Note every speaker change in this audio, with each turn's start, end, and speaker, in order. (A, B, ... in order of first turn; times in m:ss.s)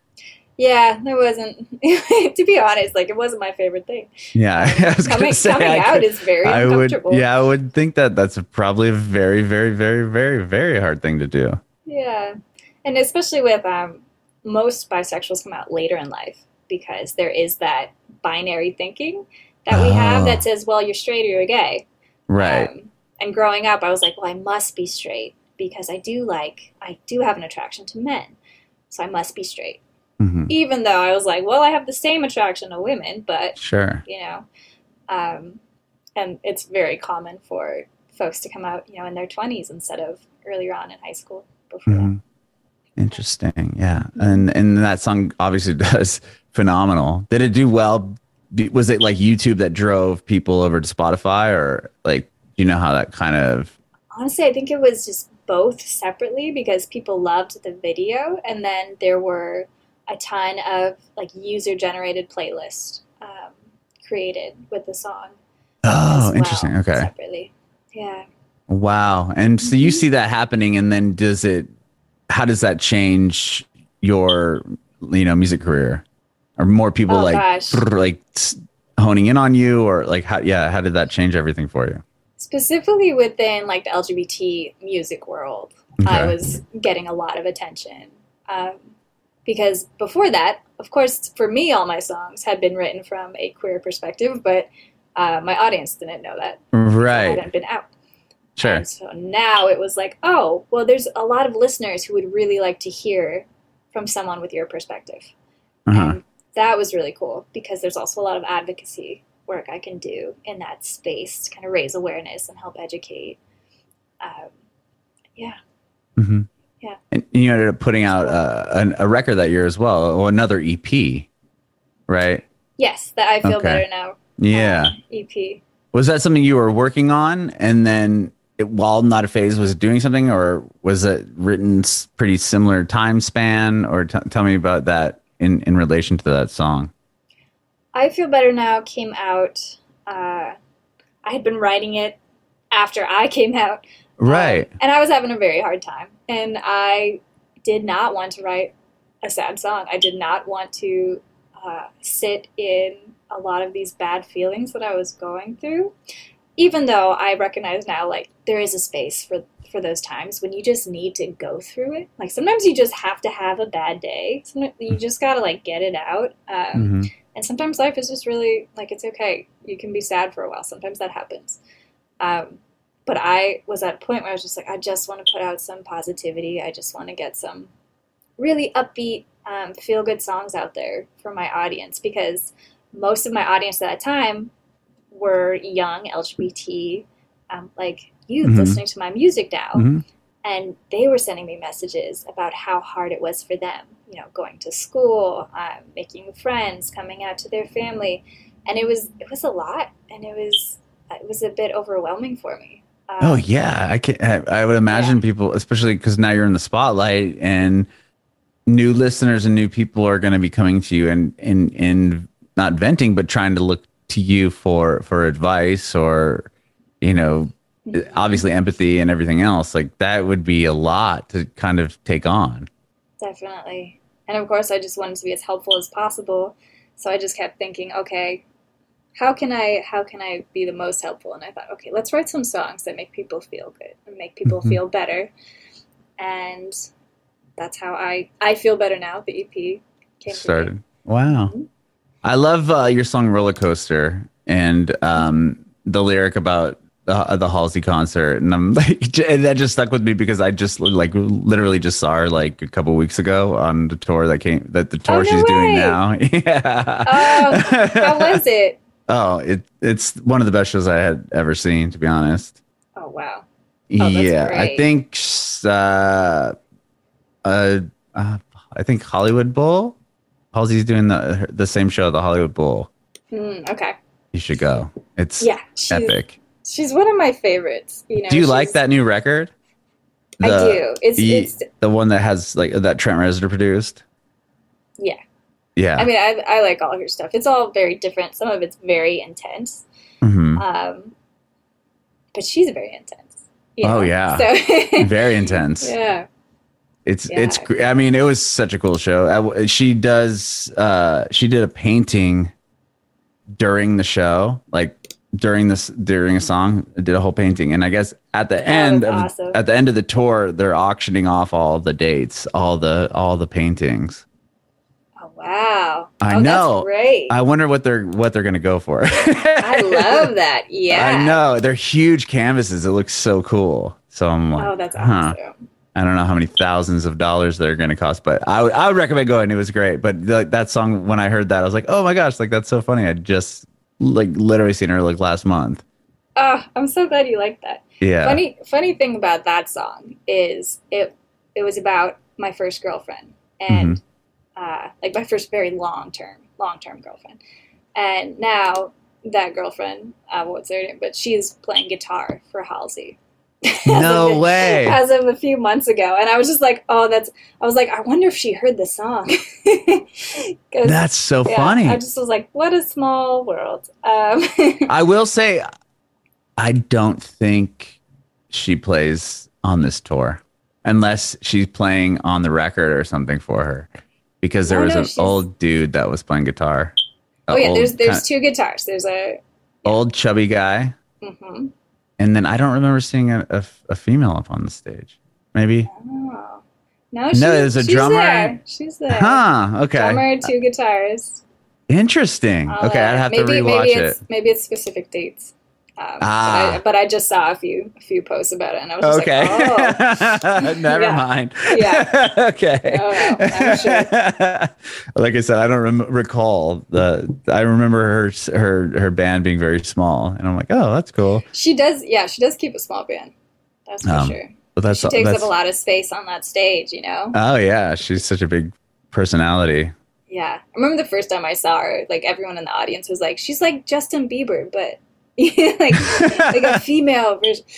0:00.6-0:07.2 A
0:04.3-0:11.6 B
0:11.8-0:21.8 A
0:19.7-0:20.4 B
0:22.3-0:22.7 B
0:22.4-0:28.4 A
0:28.9-0:29.8 A
0:30.2-0:30.5 B
0:30.5-0:34.4 A
0:33.6-0:34.0 B
0:35.1-0:35.6 A
0:36.2-0:42.1 A
0:41.9-0:42.2 B
0:43.0-0:53.7 B
0:44.2-0:44.4 A
0:54.1-1:05.4 A
1:05.8-1:07.1 B
1:06.1-1:08.3 A
1:08.7-1:11.7 B
1:09.6-1:10.0 A
1:12.3-1:16.0 B
1:16.6-1:22.0 B
1:17.1-1:17.8 A
1:22.4-1:28.9 A
1:26.0-1:26.4 B
1:29.4-1:37.9 A
1:36.7-1:37.4 B
1:38.6-1:38.8 B
1:38.6-1:45.3 A
1:45.9-1:46.2 B
1:45.9-1:53.4 A
1:54.2-1:54.5 A
1:56.2-1:56.5 B
1:57.1-2:01.3 B
2:02.1-2:02.4 B
2:02.8-2:05.6 A
2:03.4-2:03.8 B
2:04.4-2:05.0 B
2:05.9-2:16.9 B
2:17.9-2:20.5 A
2:21.2-2:22.2 A
2:22.7-2:35.9 A
2:24.2-2:24.7 B
2:36.6-2:51.6 A
2:46.8-2:47.1 B
2:52.2-2:57.7 A
2:58.4-3:04.5 A
3:05.1-3:09.9 A
3:08.4-3:08.8 B
3:09.7-3:10.0 B
3:10.4-3:23.4 A
3:23.2-3:27.9 B
3:24.9-3:25.2 A
3:28.7-3:36.5 B
3:37.0-3:42.7 B
3:37.8-3:38.4 A
3:43.2-3:48.4 A
3:49.2-3:55.3 A
3:54.4-3:54.8 B
3:56.2-3:56.8 A
3:57.6-4:00.7 A
4:00.3-4:01.5 B
4:02.2-4:18.4 B
4:15.1-4:16.0 A
4:17.0-4:18.8 A
4:19.1-4:22.5 B
4:23.0-4:23.4 A
4:23.9-4:26.5 B
4:24.0-4:24.9 A
4:27.4-4:30.0 B
4:30.5-4:32.9 B
4:33.3-4:34.0 A
4:34.3-4:36.3 B
4:35.4-4:38.8 A
4:38.3-4:39.5 B
4:40.4-4:41.7 A
4:40.4-4:44.0 B
4:45.8-4:46.1 B
4:46.0-4:49.8 A
4:50.2-4:50.6 B
4:50.6-4:51.1 A
4:52.3-4:56.3 A
4:53.8-4:55.9 B
4:57.0-5:02.5 B
4:57.3-4:57.7 A
5:03.6-5:14.2 B
5:08.6-5:09.6 A
5:15.2-5:17.4 A
5:16.2-5:20.3 B
5:19.6-5:21.4 A
5:20.9-5:25.4 B
5:24.6-5:25.5 A
5:25.9-5:35.8 B
5:36.4-5:44.0 A
5:38.0-5:38.4 B
5:43.7-5:44.0 B
5:44.6-5:47.4 A
5:48.0-6:04.9 A
5:53.8-5:55.0 B
6:00.8-6:02.0 B
6:04.9-6:05.6 B
6:06.6-6:08.0 B
6:08.5-6:13.9 B
6:14.4-6:16.9 B
6:14.7-6:15.4 A
6:17.5-6:18.2 B
6:17.5-6:20.0 A
6:19.8-6:21.0 B
6:21.2-6:21.7 A
6:22.2-6:25.9 B
6:25.8-6:29.4 A
6:27.3-6:28.6 B
6:29.1-6:30.3 B
6:29.9-6:31.4 A
6:31.9-6:34.2 B
6:32.7-6:42.1 A
6:36.2-6:36.8 B
6:39.0-6:51.4 B
6:42.9-6:44.1 A
6:51.5-6:53.3 A
6:53.9-6:57.4 A
6:54.0-6:55.5 B
6:57.3-6:59.9 B
7:00.3-7:07.6 A
7:06.0-7:06.7 B